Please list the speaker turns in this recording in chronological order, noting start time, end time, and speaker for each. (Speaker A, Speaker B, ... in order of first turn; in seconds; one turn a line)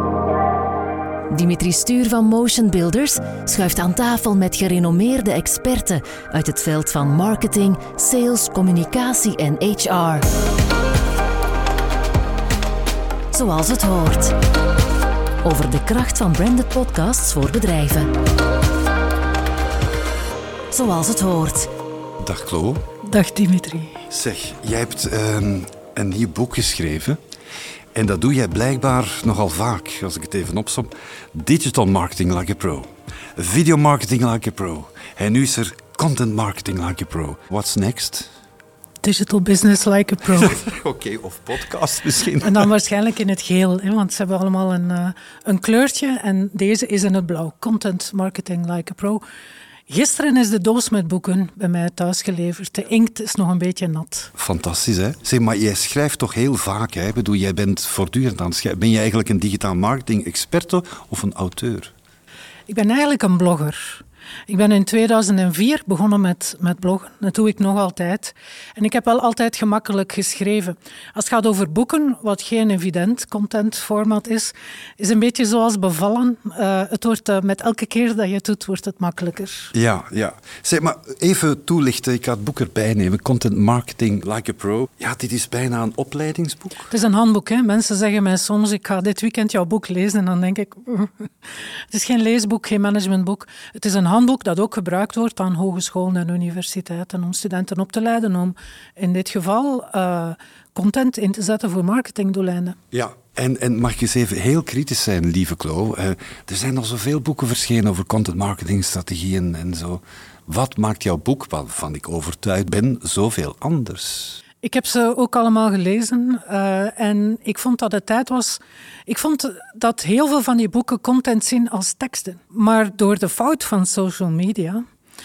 Speaker A: 1.3-10.2
Speaker A: 13.3-14.3
Speaker A: 15.4-18.1
Speaker A: 20.7-21.7
Speaker B: 22.2-22.8
Speaker C: 23.0-24.0
Speaker B: 24.1-27.2
Speaker B: 27.9-38.3
Speaker C: 39.0-40.6
Speaker B: 40.3-42.7
Speaker C: 42.4-49.2
Speaker C: 49.9-54.3
Speaker B: 54.4-61.9
Speaker C: 62.7-79.7
Speaker B: 79.7-86.9
Speaker C: 86.9-102.8
Speaker B: 102.9-114.4
Speaker C: 114.6-124.8